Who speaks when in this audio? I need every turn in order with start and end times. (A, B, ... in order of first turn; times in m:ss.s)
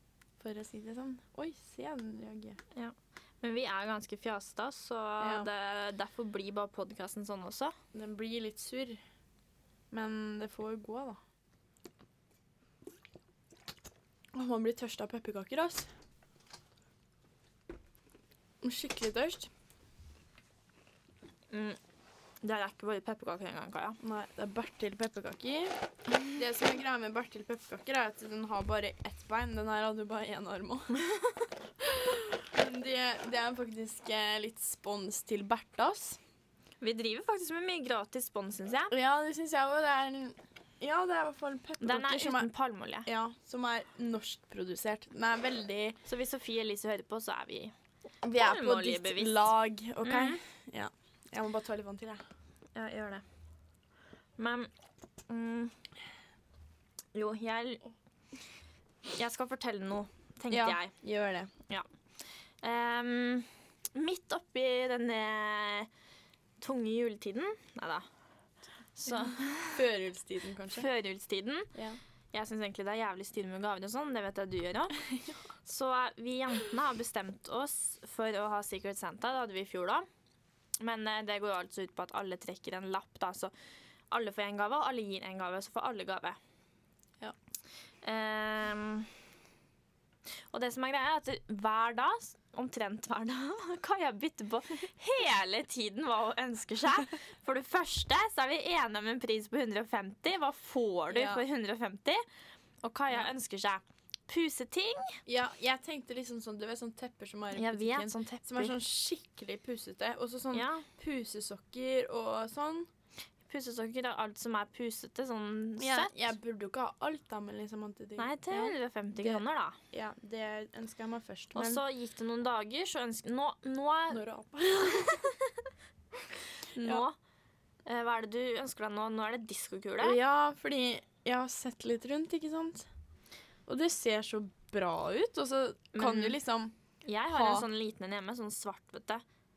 0:00.4-0:02.6 A
0:02.7-0:07.7 B
0:05.2-0:05.5 A
0:07.9-0:09.0 A
0:09.9-0:11.2 A
0:14.4-0:15.9 A
0:18.6-0:19.5 A
0:21.5-0:21.8 B
0:22.4-0:24.0 B
0:24.0-0:25.7 A
0:26.3-0:30.9 A
0:31.8-0:36.2 A
0:36.8-0:38.9 B
0:38.9-0:42.5 A
0:41.8-0:43.1 B
0:43.1-0:46.0 A
0:46.0-0:47.7 B
0:48.2-0:52.2 A
0:48.3-0:49.5 B
0:50.0-0:50.4 B
0:52.8-0:53.2 B
0:54.4-0:54.7 B
0:55.3-0:55.7 B
0:57.1-0:57.9 B
0:59.2-1:00.9 B
1:00.5-1:01.5 A
1:02.6-1:05.9 B
1:06.6-1:08.0 B
1:09.0-1:09.8 B
1:09.7-1:10.9 A
1:10.7-1:11.7 B
1:12.3-1:15.0 B
1:15.6-1:20.1 B
1:20.8-1:23.5 B
1:24.1-1:26.4 B
1:28.0-1:29.1 B
1:30.5-1:42.2 B
1:41.1-1:41.4 A
1:42.8-1:45.2 B
1:45.3-1:52.9 A
1:47.5-1:48.7 B
1:50.5-1:50.9 B
1:53.5-1:56.3 B
1:55.8-2:01.8 A
1:58.2-1:59.8 B
2:01.6-2:04.2 B
2:04.1-2:05.2 A
2:05.0-2:05.4 B
2:06.8-2:07.2 B
2:06.8-2:07.0 A
2:07.9-2:10.2 B
2:10.0-2:12.9 A
2:13.7-2:16.8 A
2:16.0-2:16.4 B
2:17.0-2:19.2 B
2:17.3-2:17.7 A